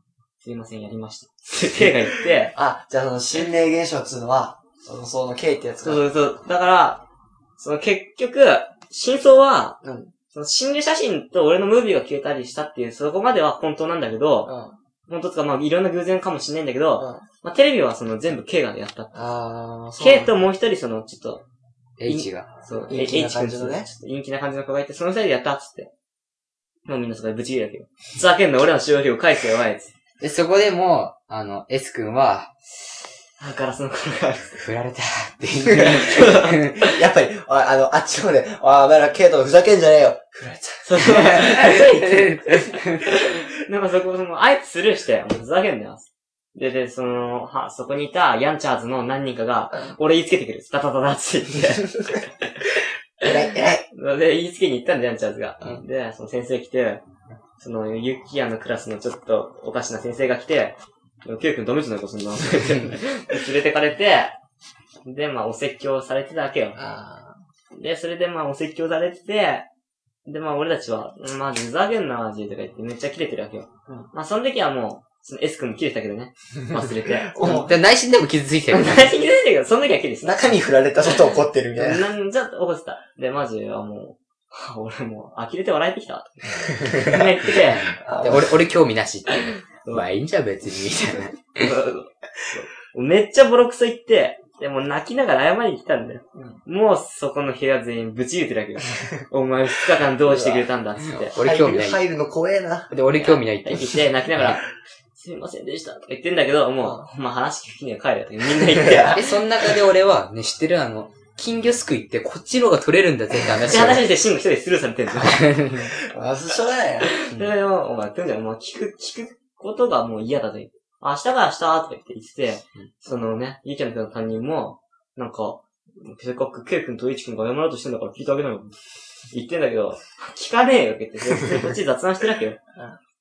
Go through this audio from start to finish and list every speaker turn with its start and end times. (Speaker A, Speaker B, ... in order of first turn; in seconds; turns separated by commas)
Speaker A: 0.4-2.5, Speaker B: 2.5-6.0, Speaker A: 5.8-7.0, Speaker A: 7.6-9.8, Speaker B: 9.8-10.1, Speaker A: 10.3-14.5, Speaker B: 14.4-14.8, Speaker A: 15.1-19.3, Speaker B: 17.0-17.2, Speaker B: 19.1-20.4, Speaker A: 20.0-21.4, Speaker C: 22.0-22.5, Speaker A: 22.0-25.9, Speaker B: 22.9-23.9, Speaker A: 26.9-29.9, Speaker C: 30.2-32.5, Speaker A: 33.4-34.6, Speaker C: 34.5-36.7, Speaker B: 35.6-41.5, Speaker A: 35.9-36.6, Speaker A: 40.8-52.5, Speaker C: 41.2-43.0, Speaker B: 53.2-53.9, Speaker A: 53.9-57.0, Speaker A: 57.6-64.3, Speaker A: 65.0-66.8, Speaker B: 66.8-67.4, Speaker A: 67.7-69.7, Speaker A: 70.2-77.6, Speaker B: 77.3-77.8, Speaker C: 77.4-79.1, Speaker A: 78.7-80.5, Speaker B: 80.2-82.0, Speaker A: 81.1-87.9, Speaker C: 87.5-91.7, Speaker B: 88.0-88.6, Speaker A: 89.3-90.0, Speaker A: 91.6-101.3, Speaker B: 96.3-96.6, Speaker B: 100.2-100.7, Speaker C: 101.0-102.0, Speaker B: 101.3-102.9, Speaker C: 102.9-104.6, Speaker A: 103.1-109.3, Speaker B: 106.8-107.1, Speaker B: 108.7-109.2, Speaker C: 109.1-114.0, Speaker A: 113.7-115.8, Speaker C: 115.2-115.9, Speaker B: 116.1-117.1, Speaker A: 117.0-128.7, Speaker A: 129.3-132.6